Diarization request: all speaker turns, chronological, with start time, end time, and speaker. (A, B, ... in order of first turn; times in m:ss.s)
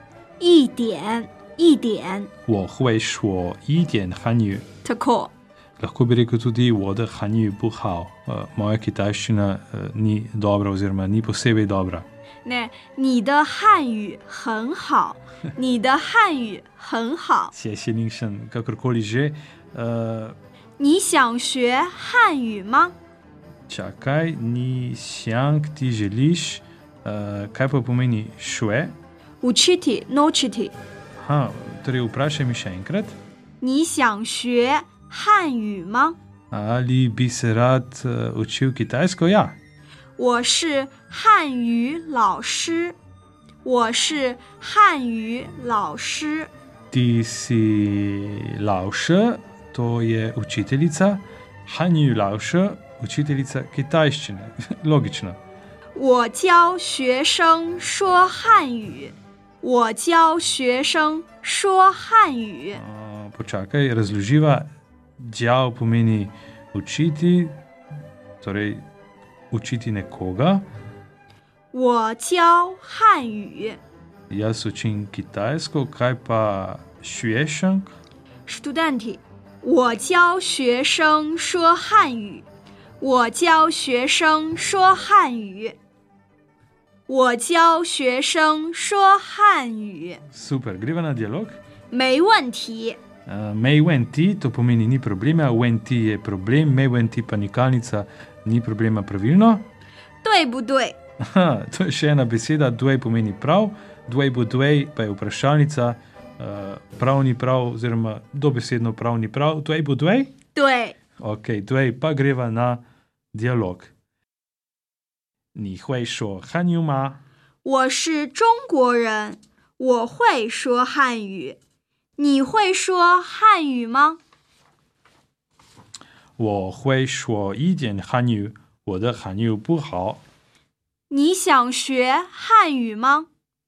0:00.4-0:02.3 A
0:02.5-0:04.6 B
0:04.8-0:05.3 A
0:05.8-0:12.1 B
0:12.4-0:17.5 A
0:17.5-0:20.4 B
0:20.8-0:22.9 A
0:23.7-0:29.0 B
0:29.4-0:30.7 A
0:31.2-0:33.2 B
0:33.6-0:36.2 A
0:36.5-0:39.6 B
0:40.2-0:43.0 A
0:43.6-0:46.5 A
0:46.9-0:55.4 B
0:55.9-1:02.8 A
1:02.7-1:07.5 B
1:08.4-1:08.8 B
1:09.5-1:10.7 B
1:11.7-1:13.8 A
1:14.3-1:17.9 B
1:18.5-1:22.4 A
1:23.0-1:25.8 A
1:27.1-1:30.2 A
1:30.3-1:31.6 B
1:31.9-1:33.0 A
1:33.2-1:39.7 B
1:40.2-1:41.0 A
1:41.2-1:50.3 B
1:50.5-1:51.0 A
1:51.2-1:53.9 B
1:55.5-1:57.2 B
1:57.6-2:01.6 A
2:02.2-2:04.2 A
2:06.4-2:10.2 B
2:11.1-2:13.3 A